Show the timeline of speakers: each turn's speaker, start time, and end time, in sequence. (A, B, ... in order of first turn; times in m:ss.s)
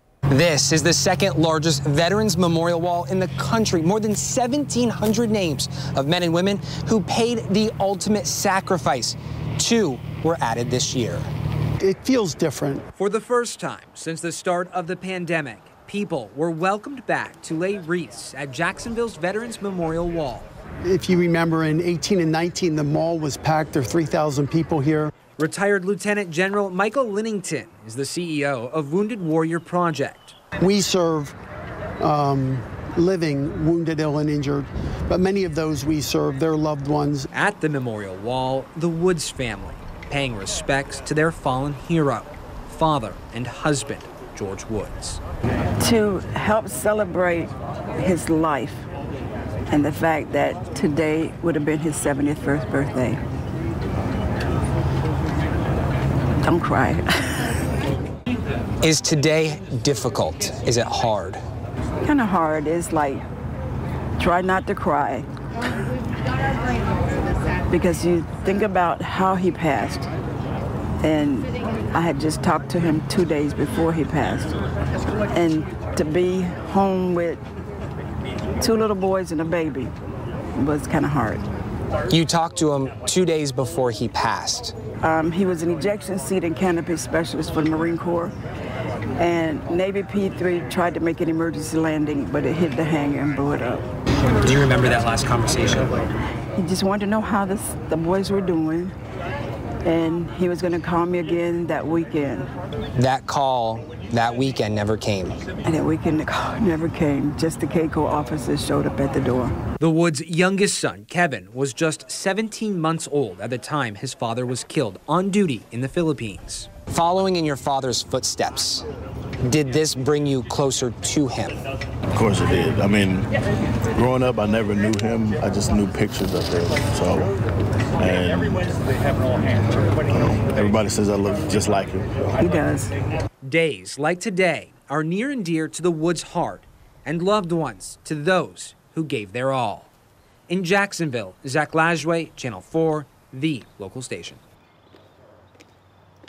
0:00.3-0:11.3 A
0:11.8-0:12.8 B
0:12.9-0:20.5 C
0:20.8-0:25.1 B
0:25.4-0:30.3 C
0:30.6-0:31.3 B
0:32.0-0:37.3 B
0:37.3-0:45.2 C
0:45.8-0:48.8 D
0:49.7-0:53.2 D
0:56.4-0:57.6 D
0:58.8-1:01.4 A
1:02.0-1:03.2 D
1:04.2-1:05.3 D
1:07.7-1:10.1 D
1:11.0-1:14.6 D
1:15.3-1:17.4 D
1:18.6-1:19.9 D
1:20.6-1:21.4 D
1:22.1-1:24.7 A
1:25.0-1:28.3 D
1:29.2-1:33.8 D
1:34.4-1:35.9 A
1:36.6-1:38.9 D
1:39.8-1:42.5 D
1:43.0-1:45.4 A
1:45.6-1:49.6 D
1:49.8-1:56.8 C
1:56.9-1:58.8 A
1:59.4-2:01.6 A
2:02.1-2:03.3 E
2:03.9-2:07.3 E
2:08.0-2:08.8 E
2:10.1-2:12.3 E
2:12.4-2:12.9 D
2:13.4-2:19.9 C
2:20.5-2:24.4 C